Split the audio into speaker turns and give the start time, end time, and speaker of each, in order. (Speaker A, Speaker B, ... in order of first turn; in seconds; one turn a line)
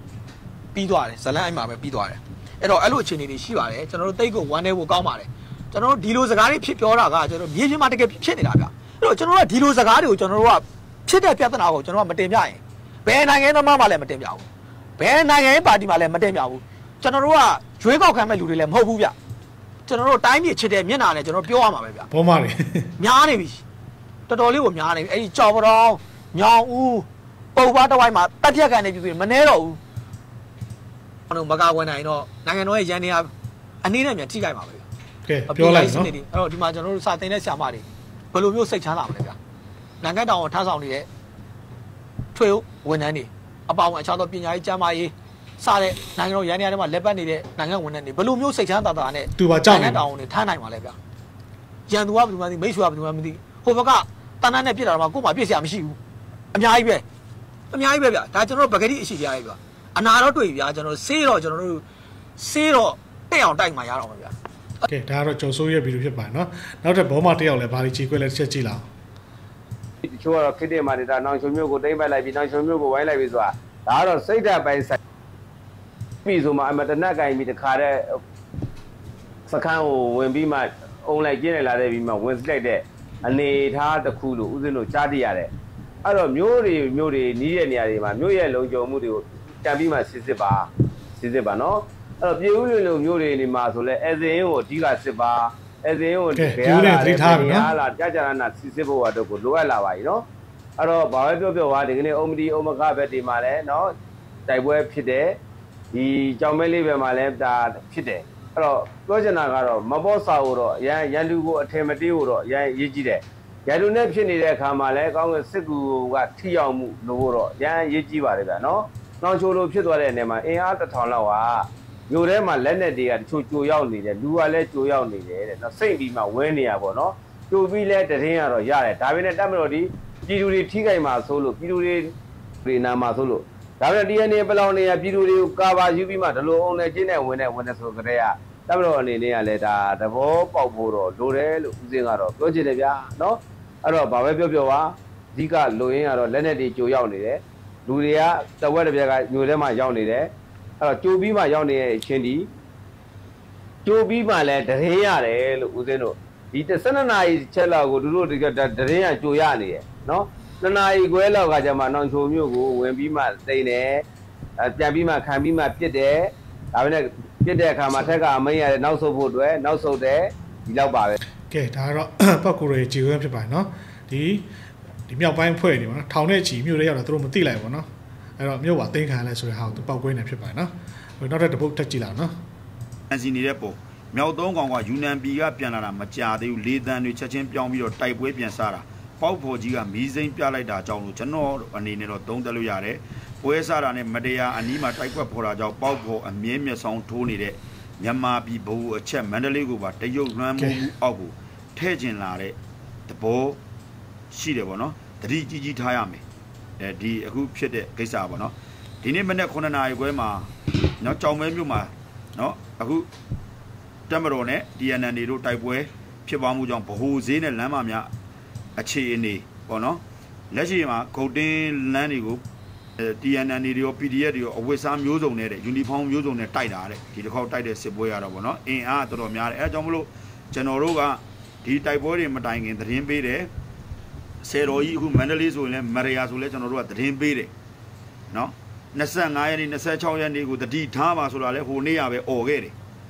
Speaker A: 0.7-14.5
Speaker A: 15.0-19.1
Speaker A: 19.9-22.1
Speaker B: 22.1-22.9
Speaker A: 23.0-23.6
Speaker A: 24.3-29.8
Speaker A: 31.3-33.3
Speaker A: 33.8-34.9
Speaker B: 35.3-36.1
Speaker A: 35.5-39.4
Speaker A: 40.0-41.1
Speaker A: 42.4-51.0
Speaker B: 49.4-50.0
Speaker A: 51.9-56.0
Speaker A: 56.5-57.0
Speaker A: 57.7-61.8
Speaker A: 62.4-64.3
Speaker B: 64.9-68.8
Speaker C: 70.0-75.0
Speaker C: 76.2-78.0
Speaker C: 79.5-85.5
Speaker C: 86.0-100.2
Speaker B: 96.3-97.7
Speaker C: 100.8-103.9
Speaker C: 104.5-105.3
Speaker C: 105.9-132.1
Speaker C: 132.7-150.3
Speaker C: 150.8-152.5
Speaker C: 153.8-164.0
Speaker C: 164.6-171.2
Speaker B: 171.5-174.4
Speaker B: 175.1-177.9
Speaker B: 178.4-182.3
Speaker D: 183.1-202.6
Speaker B: 200.6-200.8
Speaker D: 203.1-203.6
Speaker D: 204.3-206.2
Speaker D: 206.8-210.5
Speaker D: 211.0-213.1
Speaker D: 214.1-218.1
Speaker D: 218.8-222.4
Speaker D: 223.0-233.5
Speaker D: 234.4-237.5
Speaker D: 238.3-242.7